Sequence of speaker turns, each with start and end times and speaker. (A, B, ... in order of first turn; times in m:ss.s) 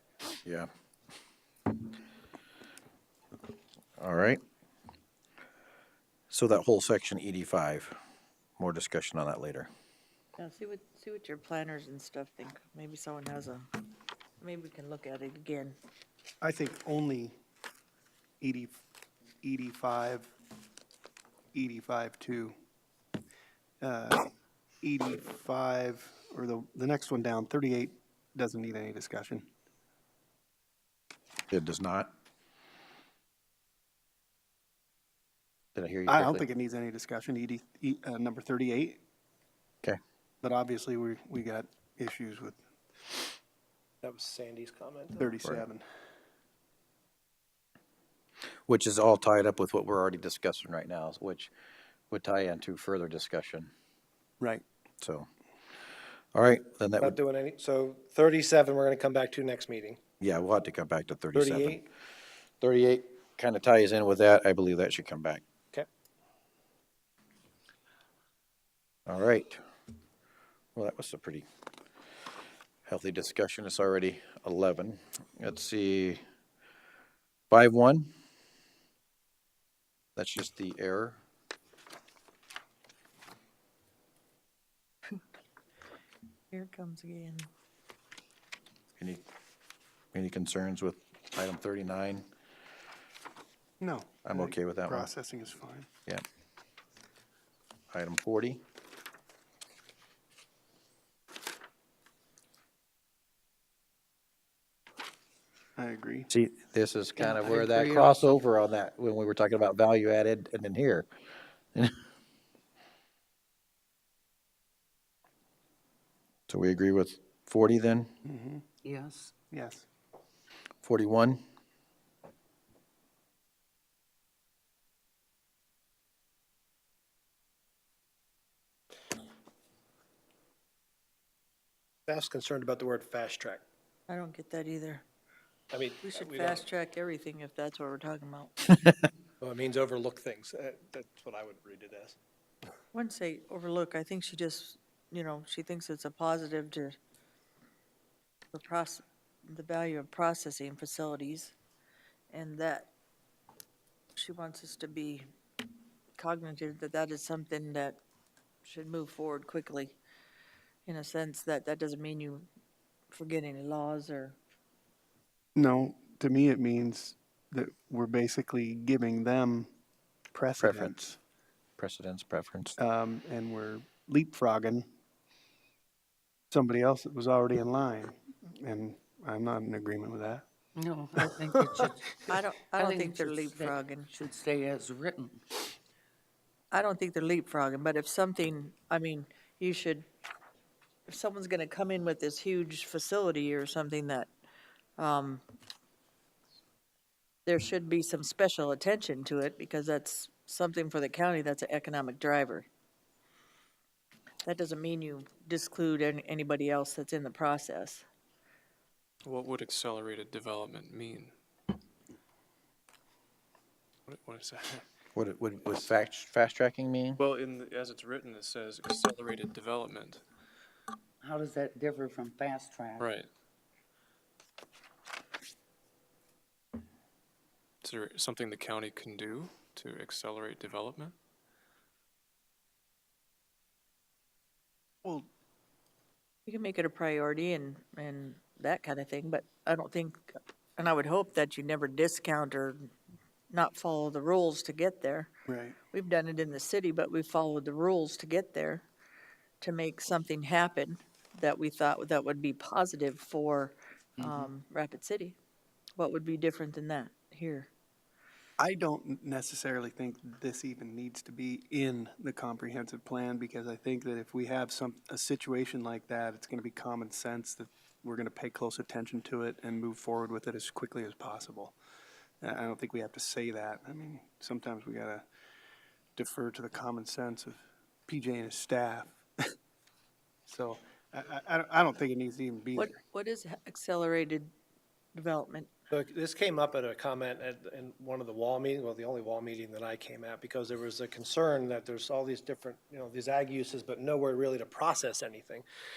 0:00.4-0:00.7 A
0:04.0-0:04.4 A
0:06.3-0:08.0 A
0:08.6-0:09.7 A
0:10.4-0:13.7 B
0:14.4-0:15.8 B
0:16.4-0:17.3 C
0:18.4-0:18.8 C
0:19.4-0:20.3 C
0:21.5-0:22.5 C
0:23.8-0:24.2 C
0:24.8-0:29.5 C
0:31.5-0:32.1 A
0:35.8-0:36.4 A
0:36.1-0:39.0 C
0:40.4-0:42.6 C
0:44.0-0:45.3 D
0:45.2-0:45.8 C
0:48.7-0:51.5 A
0:52.1-0:53.7 A
0:55.0-0:55.3 A
0:56.3-0:57.2 A
0:57.0-1:00.0 D
1:00.2-1:01.8 A
1:01.3-1:01.8 D
1:02.6-1:05.4 A
1:09.1-1:09.6 A
1:10.7-1:11.4 A
1:12.8-1:16.2 A
1:17.5-1:18.1 A
1:20.2-1:21.2 A
1:26.5-1:27.5 B
1:30.1-1:32.2 A
1:33.8-1:35.9 C
1:34.2-1:35.1 A
1:37.9-1:38.6 A
1:45.8-1:46.3 C
1:46.3-1:51.1 A
1:47.2-1:48.2 E
1:56.5-1:58.1 A
1:58.2-1:58.6 C
1:58.8-1:59.3 E
1:59.5-1:59.8 C
2:00.8-2:01.4 A
2:12.1-2:13.6 D
2:14.1-2:15.0 B
2:15.7-2:16.6 D
2:16.0-2:18.7 B
2:19.4-2:22.2 D
2:22.9-2:27.0 B
2:28.5-2:31.5 B
2:32.3-2:32.9 B
2:34.2-2:35.3 B
2:36.2-2:38.0 B
2:38.6-2:40.0 B
2:40.8-2:42.5 B
2:43.1-2:44.4 B
2:45.5-2:49.7 C
2:50.3-2:51.2 C
2:50.6-2:50.9 A
2:51.8-2:52.8 A
2:52.8-2:54.9 C
2:56.5-3:00.4 C
3:00.8-3:02.0 E
3:01.3-3:01.8 C
3:02.3-3:04.1 B
3:02.8-3:05.4 E
3:06.7-3:10.1 B
3:11.1-3:14.3 B
3:15.0-3:15.4 B
3:17.4-3:22.7 B
3:24.4-3:28.0 B
3:29.2-3:31.3 F
3:34.1-3:34.8 F
3:35.1-3:37.2 A
3:37.2-3:40.2 F
3:41.2-3:43.0 E
3:43.0-3:43.3 F
3:47.8-3:51.1 F
3:56.4-4:02.9 B
4:03.5-4:05.3 B
4:05.5-4:05.8 C
4:05.9-4:08.8 B
4:09.6-4:15.4 B
4:16.0-4:17.7 B
4:18.6-4:31.8 C
4:32.4-4:35.2 C
4:36.2-4:39.5 C
4:40.5-4:43.0 C
4:42.8-4:44.5 B
4:45.2-4:45.7 B
4:45.9-4:55.6 D